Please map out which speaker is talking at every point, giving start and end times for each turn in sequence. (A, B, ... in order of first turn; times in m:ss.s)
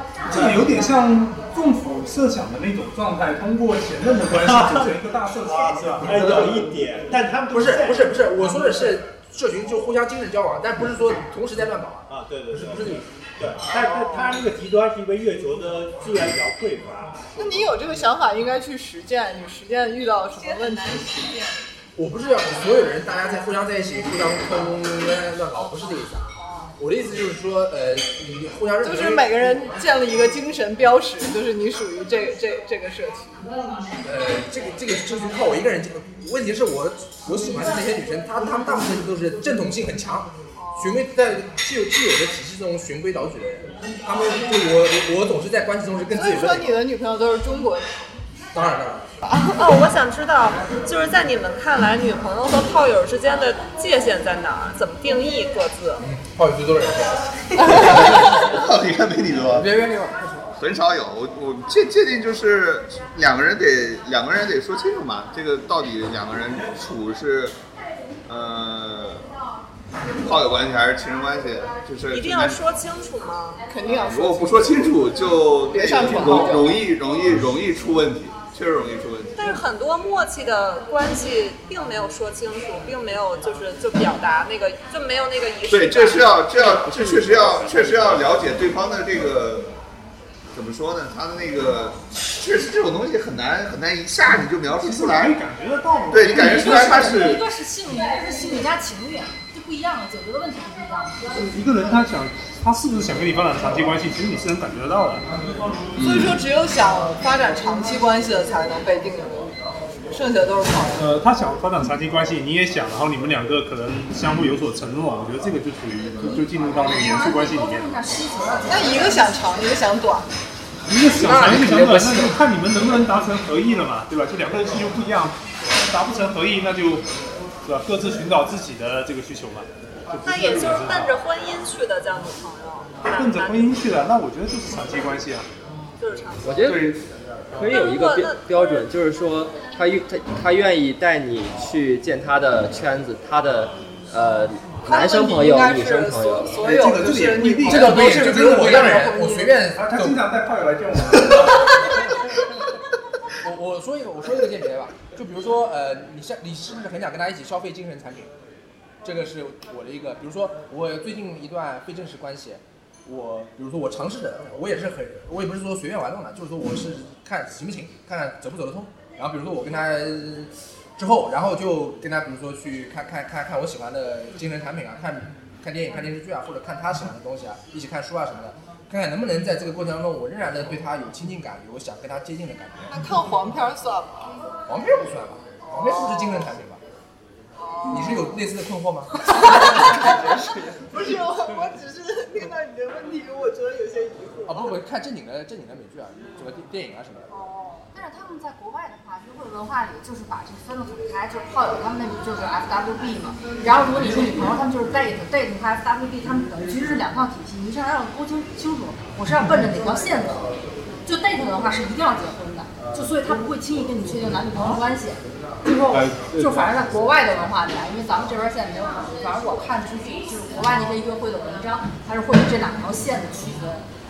0:00.3-0:06.6 A
0:00.3-0:00.8 B
0:04.4-0:08.2 B
0:07.5-0:13.0 C
0:12.1-0:17.8 B
0:13.7-0:14.4 D
0:17.4-0:21.4 D
0:20.4-0:21.5 E
0:22.0-0:26.2 C
0:26.4-0:26.7 D
0:26.8-0:29.6 C
0:28.8-0:33.5 D
0:34.0-0:46.8 C
0:40.6-0:41.0 D
0:46.1-0:47.9 D
0:48.5-0:49.1 C
0:49.3-0:49.6 D
0:49.6-0:56.0 E
0:56.0-0:58.4 C
0:57.6-0:59.6 F
0:59.5-1:00.5 C
1:00.6-1:07.6 F
1:08.2-1:09.2 F
1:10.2-1:12.7 F
1:12.1-1:13.6 E
1:13.7-1:16.8 D
1:14.0-1:19.4 F
1:16.1-1:16.5 E
1:19.4-1:26.6 E
1:25.7-1:29.7 F
1:26.6-1:28.3 G
1:30.5-1:35.4 F
1:34.7-1:37.1 A
1:36.1-1:37.4 F
1:36.3-1:41.2 H
1:41.3-1:45.2 A
1:46.0-1:46.3 F
1:46.0-1:49.5 D
1:50.1-1:51.0 D
1:51.0-1:58.0 A
1:56.3-1:59.4 H
1:58.6-2:00.3 D
2:00.9-2:07.0 A
2:01.1-2:02.4 C
2:07.6-2:11.2 A
2:10.2-2:13.8 E
2:13.1-2:15.5 A
2:16.0-2:16.7 E
2:16.4-2:16.9 G
2:16.5-2:17.0 A
2:17.6-2:26.6 G
2:17.6-2:18.8 E
2:24.8-2:29.5 D
2:26.6-2:29.0 A
2:27.6-2:30.2 C
2:29.7-2:31.7 A
2:33.4-2:38.3 C
2:39.0-3:02.9 C
3:02.9-3:04.3 D
3:04.7-3:06.8 C
3:05.6-3:06.5 D
3:07.6-3:08.4 D
3:07.9-3:10.4 C
3:09.2-3:14.8 D
3:14.4-3:17.3 C
3:17.3-3:30.5 H
3:31.0-3:43.8 H
3:35.9-3:36.7 B